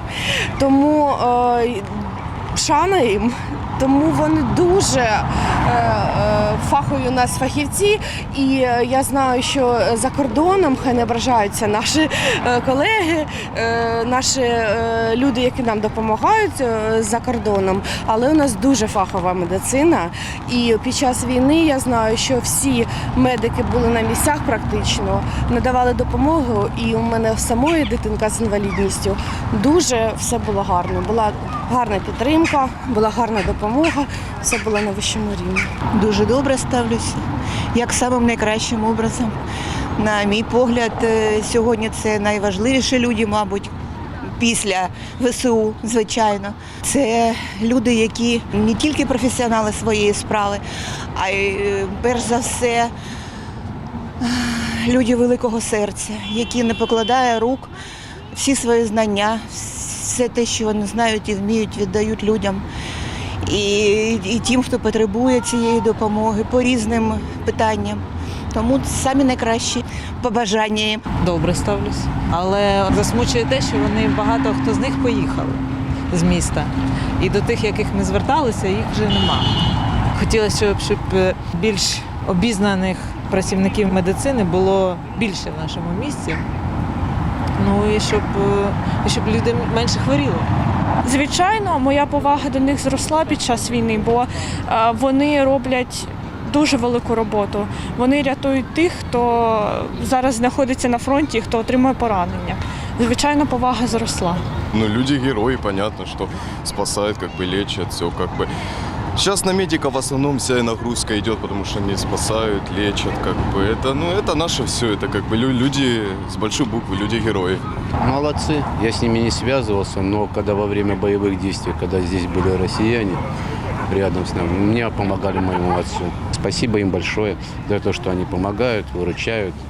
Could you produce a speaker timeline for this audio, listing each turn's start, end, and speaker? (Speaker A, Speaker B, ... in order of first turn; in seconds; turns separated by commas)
Speaker A: 0.6-35.7, Speaker B: 35.9-39.3, Speaker B: 40.0-43.7, Speaker B: 44.3-50.6, Speaker B: 51.1-52.9, Speaker B: 54.2-57.7, Speaker B: 58.3-62.6, Speaker B: 63.4-71.0, Speaker C: 71.2-79.5, Speaker C: 80.1-86.4, Speaker C: 87.5-90.5, Speaker D: 91.0-104.5, Speaker E: 104.7-108.5, Speaker E: 109.2-117.6, Speaker F: 118.0-123.2, Speaker F: 123.9-129.6